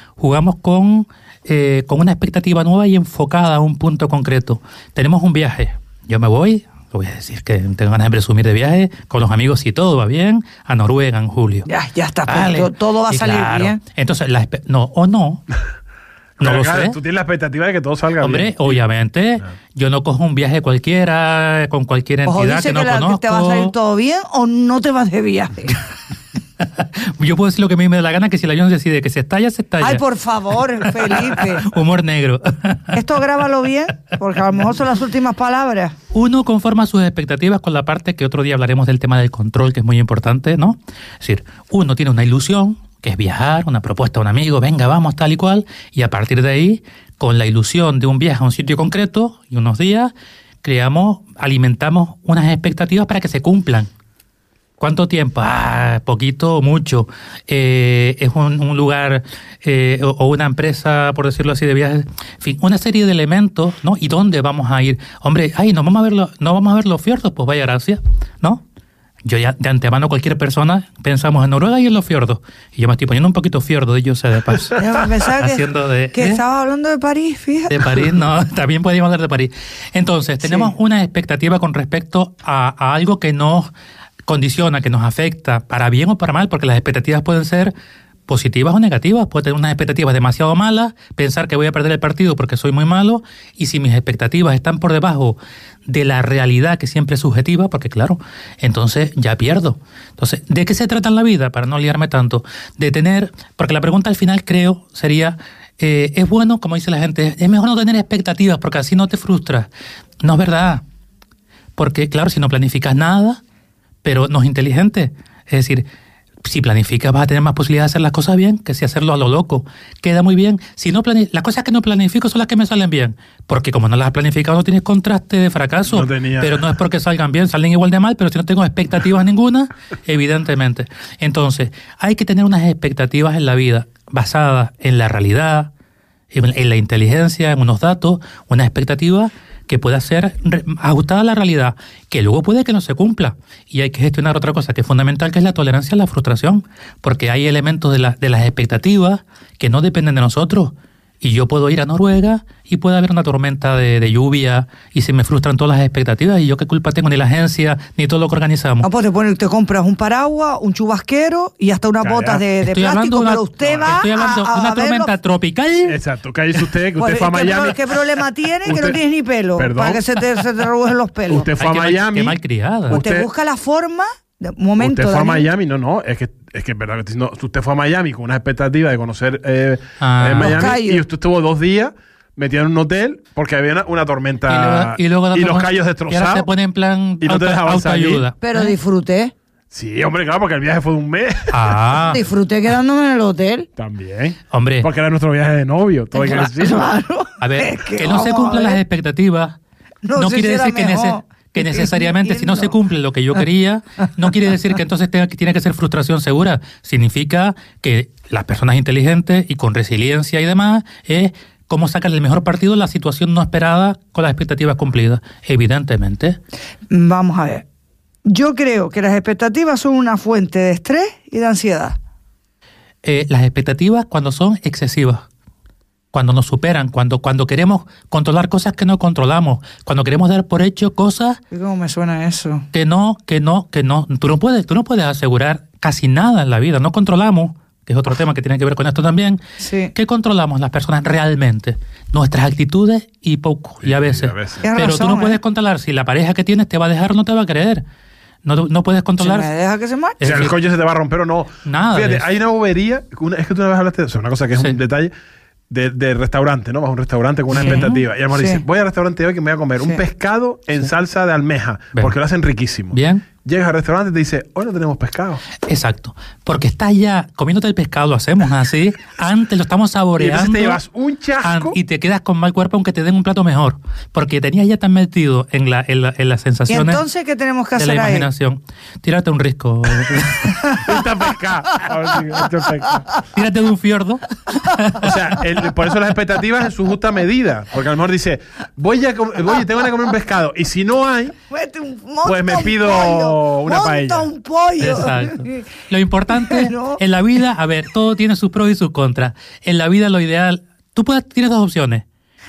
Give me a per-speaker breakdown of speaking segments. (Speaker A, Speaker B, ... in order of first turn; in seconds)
Speaker A: 0.2-11.7, 12.3-15.4, 16.4-17.0, 18.2-23.7, 26.6-30.0, 30.8-33.0, 36.1-50.1, 50.6-53.9, 54.8-68.6, 69.2-76.4, 77.7-83.7, 84.3-87.7, 88.3-109.7, 110.2-110.8, 111.8-113.4, 114.0-115.8, 116.4-135.7, 136.3-158.9, 162.6-166.0, 171.6-173.0, 180.0-180.7, 184.5-188.7, 191.5-192.2, 194.5-194.9, 197.4-199.6, 200.1-216.4, 223.0-225.2, 226.1-231.4, 232.7-239.4, 239.9-247.8, 248.4-249.5, 250.2-250.6, 251.6-252.3, 257.5-257.9, 262.9-263.2, 265.7-270.8, 271.4-277.0, 277.8-280.8, 283.3-285.2, 294.8-302.0
Speaker B: 11.7-13.8, 22.2-25.9, 29.8-31.6, 32.9-35.9, 74.7-78.0, 80.4-80.7, 158.8-165.1, 167.0-171.5, 172.9-175.4, 180.4-181.1, 188.4-189.3, 192.0-193.7, 196.1-198.8, 200.0-202.7, 216.9-217.6, 218.2-222.0, 231.5-232.7, 239.6-239.9, 244.6-245.4, 249.2-250.2, 257.6-258.6, 276.7-278.3, 291.5-295.6, 296.3-297.0
Speaker C: 16.4-18.8, 125.9-126.7, 162.0-162.4, 163.6-164.0, 165.9-167.8, 168.6-169.0, 169.6-170.1, 171.3-172.4, 172.9-173.3, 174.8-186.5, 187.2-188.2, 189.7-191.8, 193.8-196.8, 243.8-244.6, 250.2-255.1, 255.7-265.4, 270.2-271.8, 280.8-283.0, 285.0-291.3, 292.2-294.3